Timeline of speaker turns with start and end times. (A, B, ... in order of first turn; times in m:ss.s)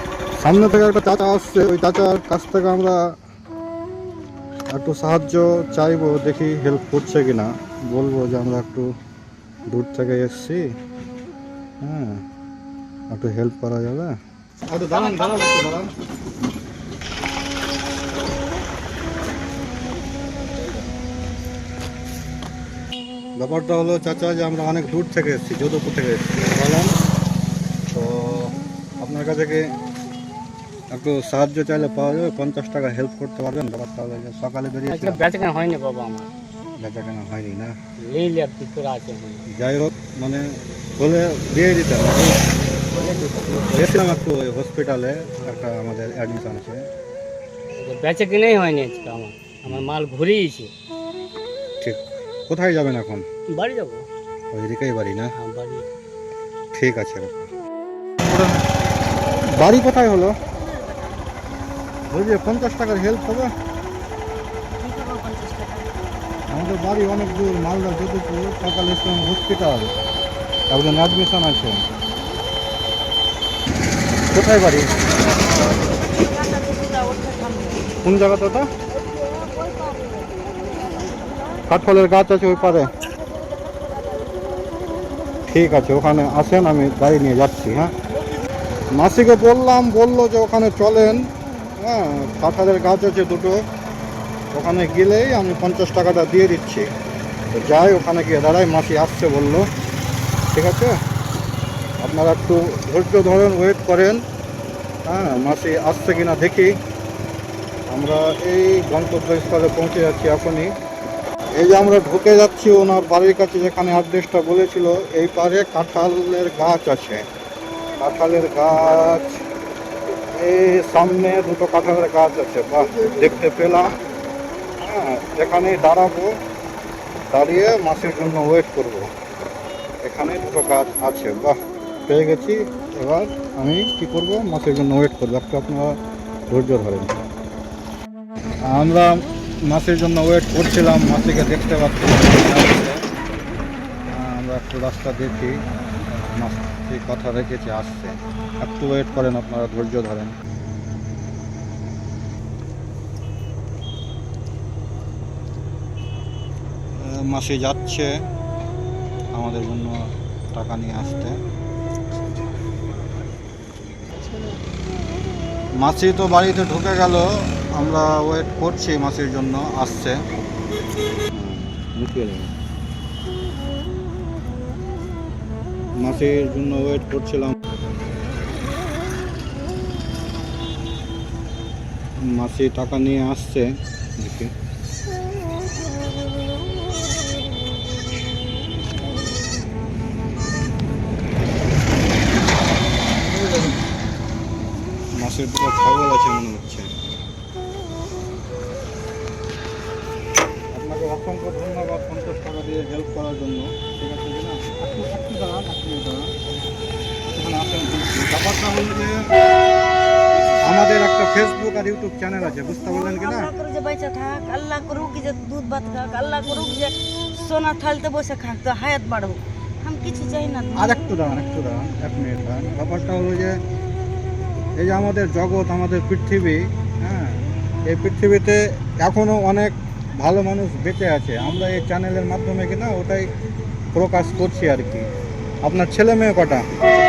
0:00.4-0:03.1 A
0:04.7-0:08.9 A
0:09.7-0:10.6 A
0:11.8-0:12.2 A
0:13.1-0:14.1 A
0:14.7-0:15.9 A
0:14.9-0:15.7 B
0:23.4-0:26.9 A
0:27.9-0:29.6 A
0:30.9-0:35.2 A
0:34.9-0:36.3 C
0:36.8-0:37.7 A
0:38.0-0:39.4 C
0:39.5-0:42.4 A
0:42.9-0:43.7 C
0:43.7-0:46.8 A
0:45.3-0:45.7 C
0:47.8-0:50.7 C
0:51.8-0:53.2 A
0:53.5-0:54.0 C
0:54.5-0:55.3 A
0:55.4-0:55.8 C
0:56.7-0:57.5 A
0:58.2-0:58.6 A
0:59.4-1:00.3 A
1:00.5-1:01.2 B
1:02.1-1:03.5 A
1:04.8-1:06.0 B
1:06.5-1:09.9 A
1:10.7-1:11.8 A
1:14.3-1:14.9 A
1:14.7-1:17.9 B
1:18.0-1:18.7 A
1:18.9-1:21.6 B
1:21.7-1:23.0 A
1:22.6-1:24.7 B
1:25.5-1:27.9 A
1:28.9-1:33.6 A
1:34.5-1:36.9 A
1:37.5-1:39.7 A
1:40.5-1:41.0 A
1:42.0-1:44.2 A
1:45.0-1:46.7 A
1:47.9-1:50.7 A
1:51.5-1:57.2 A
1:58.0-1:59.4 A
2:00.1-2:03.9 A
2:04.8-2:06.3 A
2:07.3-2:09.1 A
2:10.0-2:11.6 A
2:12.1-2:16.0 A
2:16.5-2:17.1 A
2:18.7-2:23.0 A
2:24.1-2:25.6 A
2:26.1-2:30.3 A
2:37.0-2:38.1 A
2:39.3-2:39.9 A
2:40.5-2:41.3 A
2:45.8-2:50.2 A
2:51.3-2:52.5 A
2:56.0-2:57.5 A
3:02.2-3:04.5 A
3:15.2-3:16.9 A
3:20.7-3:26.4 A
3:27.3-3:29.3 A
3:30.3-3:30.9 B
3:30.6-3:33.5 A
3:32.8-3:41.0 B
3:40.8-3:43.6 A
3:44.8-3:53.3 A
3:53.9-3:55.1 A
3:55.6-3:56.6 A